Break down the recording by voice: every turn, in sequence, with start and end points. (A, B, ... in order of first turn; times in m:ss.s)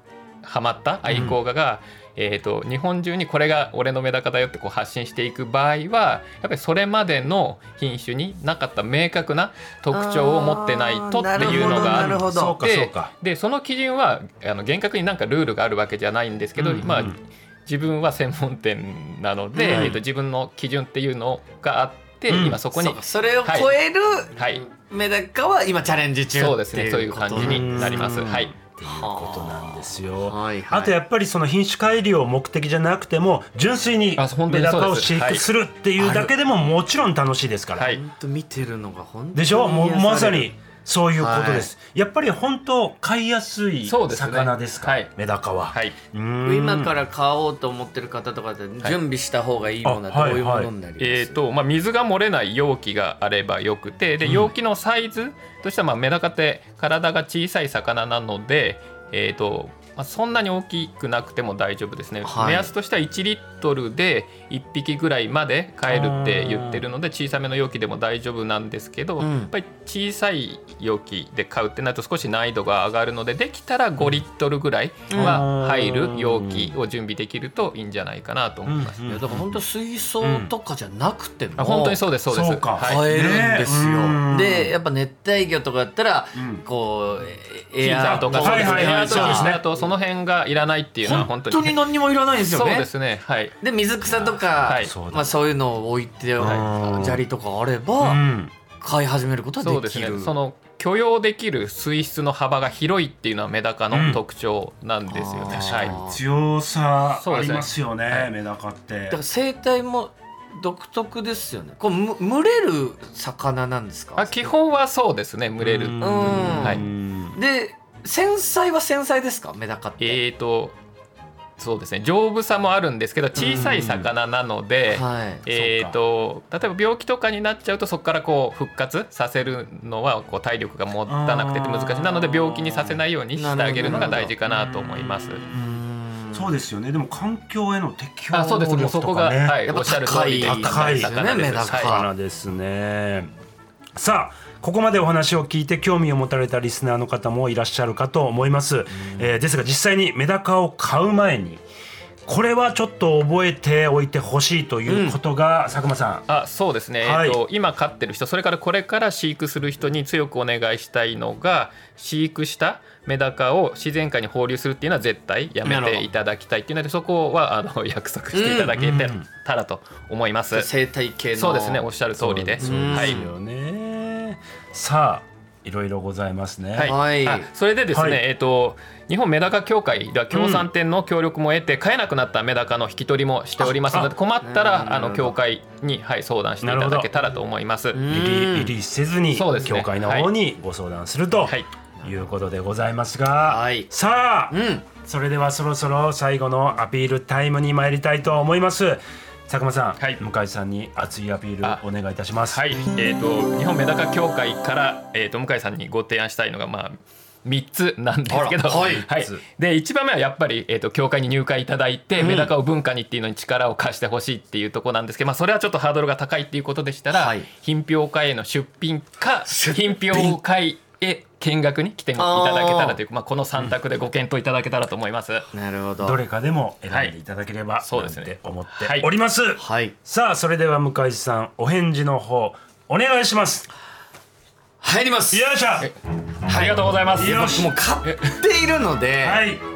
0:00.4-0:23.7 A
0:01.1-0:01.4 B
0:09.9-0:12.6 C
0:11.4-0:13.1 B
0:16.6-0:17.2 B
0:19.6-0:20.0 C
0:19.7-0:20.0 B
0:22.3-0:22.6 B
0:22.8-0:28.2 C
0:24.4-0:24.6 A
0:26.4-0:28.5 A
0:27.4-0:37.9 B
0:28.8-0:30.9 C
0:34.2-0:35.4 A
0:36.0-0:36.3 C
0:37.8-0:40.5 C
0:39.3-0:46.9 B
0:41.2-0:41.7 C
0:43.8-0:45.1 A
0:45.7-0:46.0 A
0:46.4-0:51.4 C
0:49.8-0:50.7 B
0:51.0-1:19.0 A
0:54.2-0:54.5 B
1:02.2-1:02.7 C
1:05.9-1:06.8 B
1:09.2-1:09.5 C
1:15.1-1:15.4 C
1:15.2-1:16.7 B
1:18.7-1:19.6 B
1:19.1-1:22.0 C
1:20.2-1:20.5 B
1:21.6-1:23.4 A
1:22.3-1:24.7 B
1:22.8-1:29.6 C
1:26.4-1:26.6 B
1:27.8-1:33.6 A
1:28.1-1:29.6 B
1:31.0-1:32.9 C
1:33.6-1:38.2 C
1:34.6-1:34.9 A
1:34.8-1:35.3 B
1:36.4-1:37.2 B
1:38.0-1:38.5 B
1:38.8-1:40.3 C
1:39.6-1:46.0 A
1:43.9-1:44.2 B
1:45.1-1:46.2 C
1:45.5-1:49.2 B
1:47.2-1:48.3 A
1:49.1-1:54.5 C
1:54.2-1:56.8 A
1:55.6-1:57.4 B
1:56.0-2:00.2 C
2:00.0-2:00.8 A
2:01.6-2:15.4 A
2:03.4-2:03.8 C
2:03.4-2:04.1 B
2:04.9-2:05.4 C
2:05.5-2:06.0 B
2:11.1-2:12.9 B
2:13.4-2:14.3 C
2:13.9-2:14.9 B
2:15.5-2:19.6 B
2:15.9-2:16.4 C
2:18.3-2:22.0 A
2:19.7-2:22.1 C
2:20.4-2:23.3 B
2:24.0-2:31.6 B
2:29.0-2:29.2 C
2:32.3-2:36.2 B
2:34.9-2:35.2 C
2:36.3-2:50.7 A
2:37.0-2:37.4 B
2:45.6-2:46.1 C
2:48.3-2:48.8 C
2:48.8-2:49.2 B
2:50.5-2:51.8 C
2:51.4-2:53.2 A
2:52.2-2:57.0 B
2:52.6-2:53.3 C
2:56.8-3:08.0 A
2:56.8-2:57.5 C
2:57.9-2:58.2 B
3:00.3-3:00.7 B
3:03.8-3:04.1 B
3:04.4-3:05.3 C
3:06.6-3:07.1 B
3:07.9-3:08.7 C
3:08.1-3:22.6 B
3:09.3-3:10.3 A
3:13.4-3:13.9 C
3:14.5-3:14.9 C
3:22.5-3:45.5 A
3:28.3-3:29.0 C
3:28.7-3:29.4 B
3:32.2-3:32.5 C
3:37.1-3:37.5 C
3:39.5-3:40.4 C
3:42.2-3:43.0 C
3:45.5-3:46.2 C
3:46.0-3:53.7 B
3:47.8-3:49.1 A
3:49.6-3:49.9 C
3:54.8-3:55.5 C
3:55.3-3:55.9 B
3:56.4-3:58.4 A
3:56.4-3:59.4 C
3:57.1-3:57.7 B
3:59.2-3:59.6 B